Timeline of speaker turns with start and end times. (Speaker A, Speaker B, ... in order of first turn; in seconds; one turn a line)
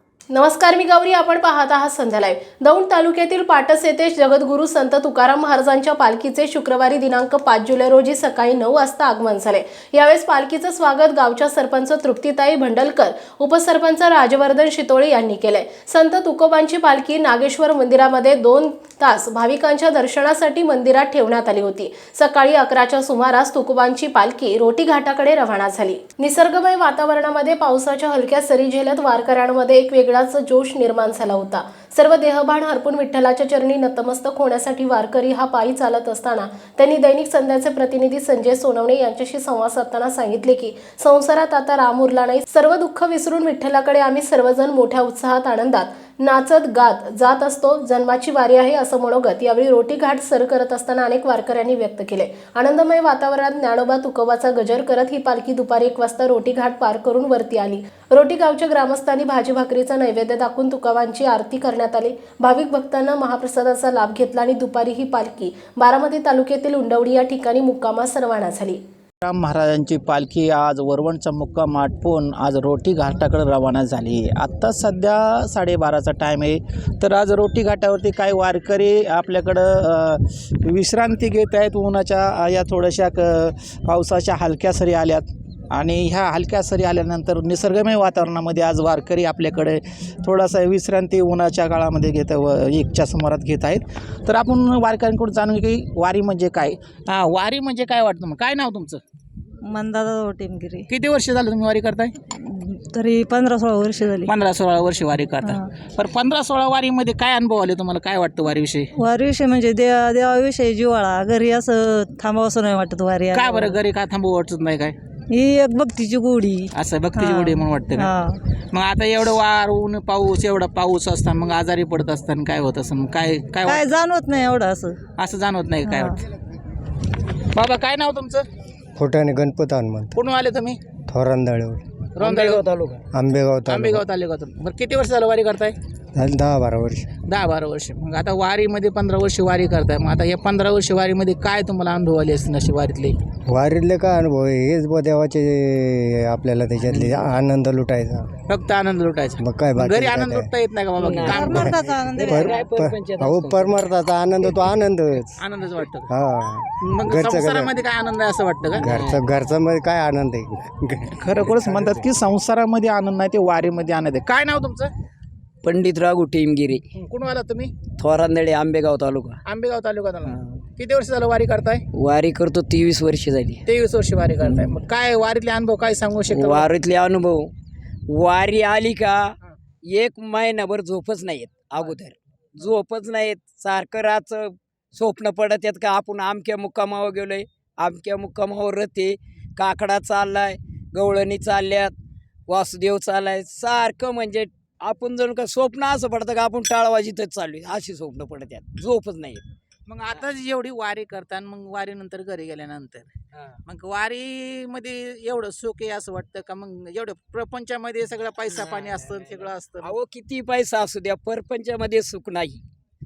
Speaker A: 0.3-68.8
Speaker B: 69.2-99.0
Speaker C: 99.6-100.9
Speaker B: 100.9-102.2
Speaker C: 102.3-104.3
Speaker B: 104.2-108.9
Speaker C: 105.4-105.7
Speaker C: 109.0-113.8
Speaker B: 113.3-115.0
Speaker C: 115.3-118.4
Speaker B: 116.7-118.1
Speaker B: 118.7-123.9
Speaker C: 123.6-125.0
Speaker B: 125.2-126.2
Speaker C: 125.8-126.2
Speaker B: 127.5-128.4
Speaker D: 129.0-130.2
Speaker B: 130.1-130.8
Speaker D: 131.1-131.8
Speaker B: 132.2-132.6
Speaker E: 132.5-132.9
Speaker D: 133.1-134.0
Speaker B: 133.7-135.8
Speaker D: 136.1-137.1
Speaker B: 137.3-143.1
Speaker D: 143.5-148.3
Speaker E: 146.9-147.2
Speaker B: 148.5-151.8
Speaker D: 149.4-150.5
Speaker E: 151.0-151.6
Speaker D: 151.3-155.4
Speaker C: 151.3-152.6
Speaker E: 152.2-153.8
Speaker B: 155.4-156.1
Speaker D: 156.1-157.7
Speaker B: 156.8-158.9
Speaker D: 158.8-162.0
Speaker E: 158.8-159.3
Speaker B: 161.1-164.9
Speaker E: 165.6-166.8
Speaker B: 166.9-167.7
Speaker E: 168.0-169.4
Speaker B: 169.4-171.8
Speaker E: 170.2-170.6
Speaker E: 171.9-173.6
Speaker B: 173.7-176.7
Speaker E: 174.4-174.7
Speaker E: 176.3-177.5
Speaker E: 178.1-179.3
Speaker E: 179.9-191.9
Speaker E: 192.5-199.4
Speaker B: 199.9-203.1
Speaker B: 203.7-209.9
Speaker E: 208.5-212.6